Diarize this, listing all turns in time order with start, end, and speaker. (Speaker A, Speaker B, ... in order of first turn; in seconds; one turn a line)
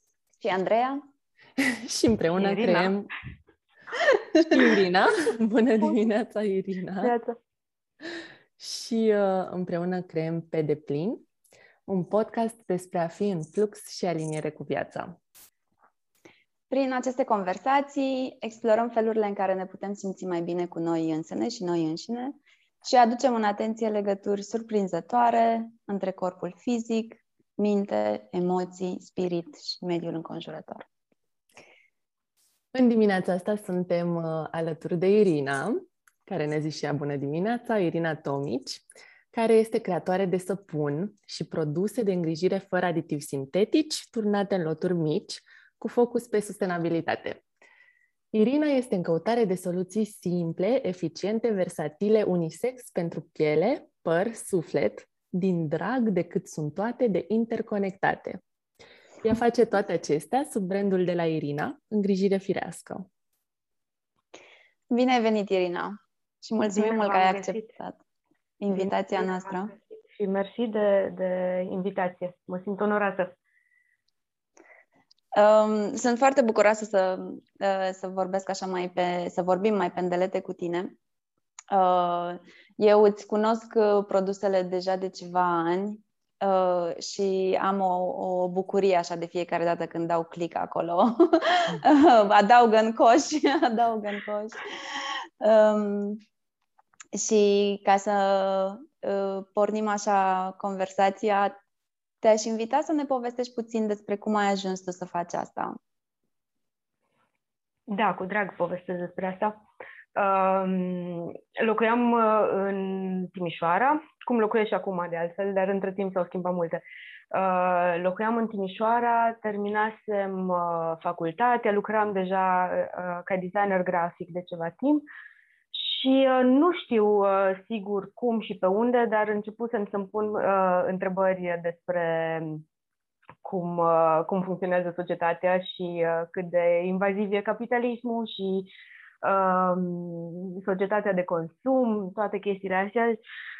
Speaker A: 0.4-1.0
Speaker B: 1.6-3.1
Speaker C: 2.3-3.0
Speaker B: 4.4-7.1
Speaker C: 7.0-7.4
Speaker B: 8.6-11.2
Speaker B: 11.8-15.2
Speaker A: 16.7-30.9
Speaker B: 32.7-47.4
Speaker B: 48.3-58.4
Speaker B: 59.2-63.1
Speaker A: 64.9-68.0
Speaker C: 66.7-67.7
Speaker A: 68.6-69.7
Speaker C: 68.7-73.3
Speaker A: 75.3-81.0
Speaker A: 81.7-96.2
Speaker A: 97.1-101.5
Speaker A: 102.2-105.8
Speaker C: 107.9-109.6
Speaker C: 110.1-125.0
Speaker C: 125.7-132.6
Speaker C: 133.4-138.7
Speaker C: 139.2-143.2